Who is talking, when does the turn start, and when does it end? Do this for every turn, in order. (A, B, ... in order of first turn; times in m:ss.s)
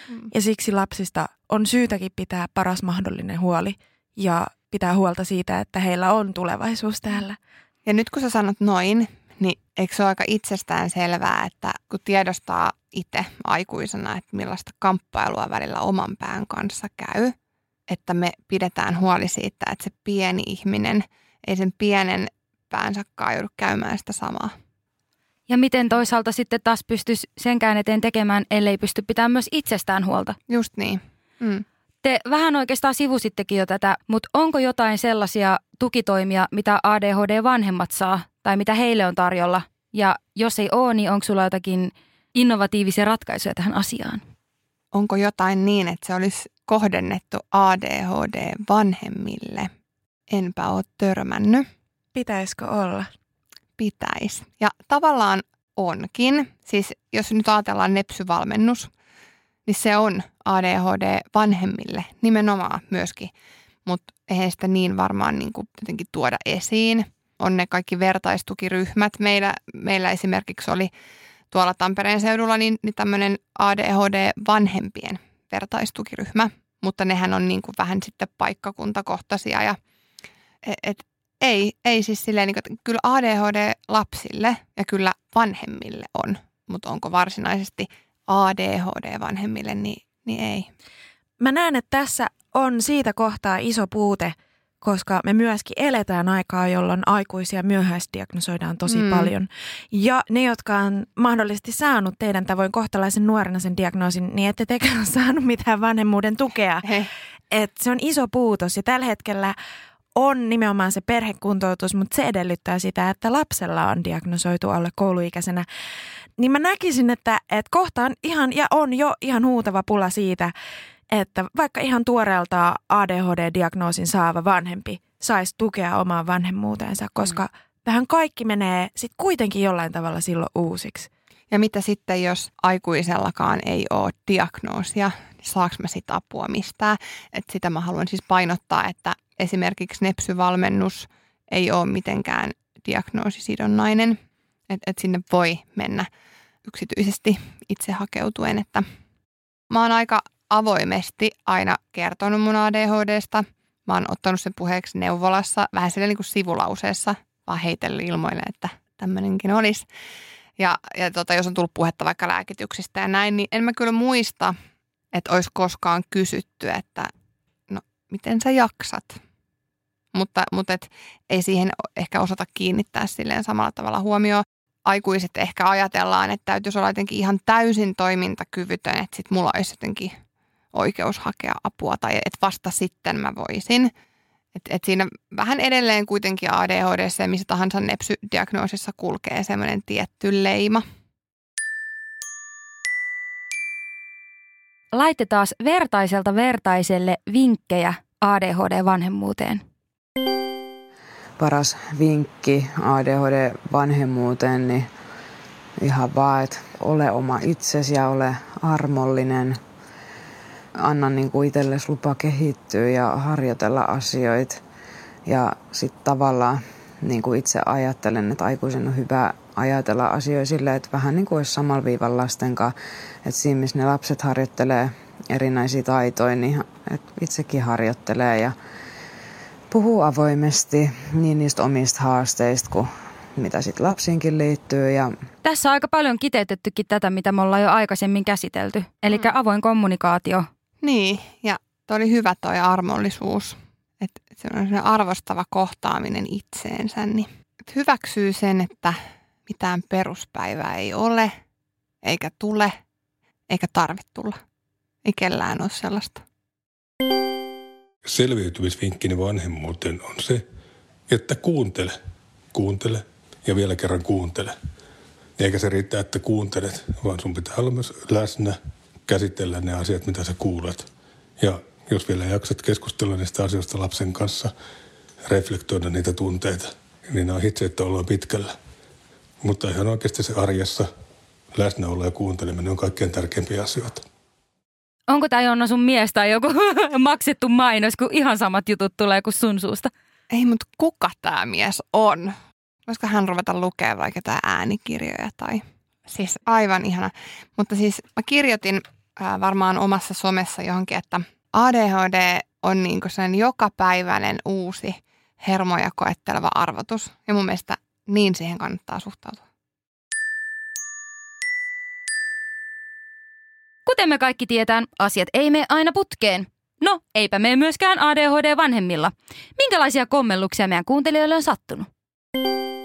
0:00.3-0:07.4 A
0:07.9-0:17.4 B
0:17.9-0:24.5 B
0:25.5-0:30.4 C
0:30.5-0:31.6 B
0:32.0-0:44.2 C
0:44.9-0:49.7 B
0:50.3-0:51.6 B
0:52.2-0:53.1 A
0:53.8-0:58.9 B
0:59.7-1:03.3 B
1:03.9-1:10.9 B
1:11.5-1:19.8 B
1:20.6-1:30.7 B
1:31.4-1:46.9 A
1:38.9-1:39.3 B
1:47.5-1:49.6 A
1:50.2-1:55.7 A
1:56.4-2:00.5 A
2:01.1-2:11.1 A
2:11.5-2:24.2 B
2:24.7-2:26.1 B
2:26.6-2:28.8 B
2:29.7-2:39.8 B
2:40.6-2:44.5 B
2:45.1-2:47.1 B
2:47.7-2:49.2 B
2:50.1-3:00.1 B
3:00.7-3:03.9 B
3:04.6-3:10.8 B
3:14.9-3:19.6 C
3:21.4-3:24.9 D
3:25.8-3:29.6 D
3:30.8-3:34.6 D
3:35.3-3:48.6 D
3:49.7-3:55.2 D
3:55.4-4:00.5 C
4:00.8-4:11.3 B
4:12.0-4:12.7 B
4:13.5-4:14.4 B
4:15.0-4:16.2 B
4:18.0-4:20.4 E
4:21.1-4:22.0 E
4:22.5-4:24.6 E
4:25.4-4:30.9 E
4:31.4-4:34.5 E
4:35.3-4:38.6 E
4:39.4-4:40.9 E
4:41.5-4:44.0 E
4:45.1-4:49.9 C
4:50.3-5:09.4 B
5:13.9-5:21.9 C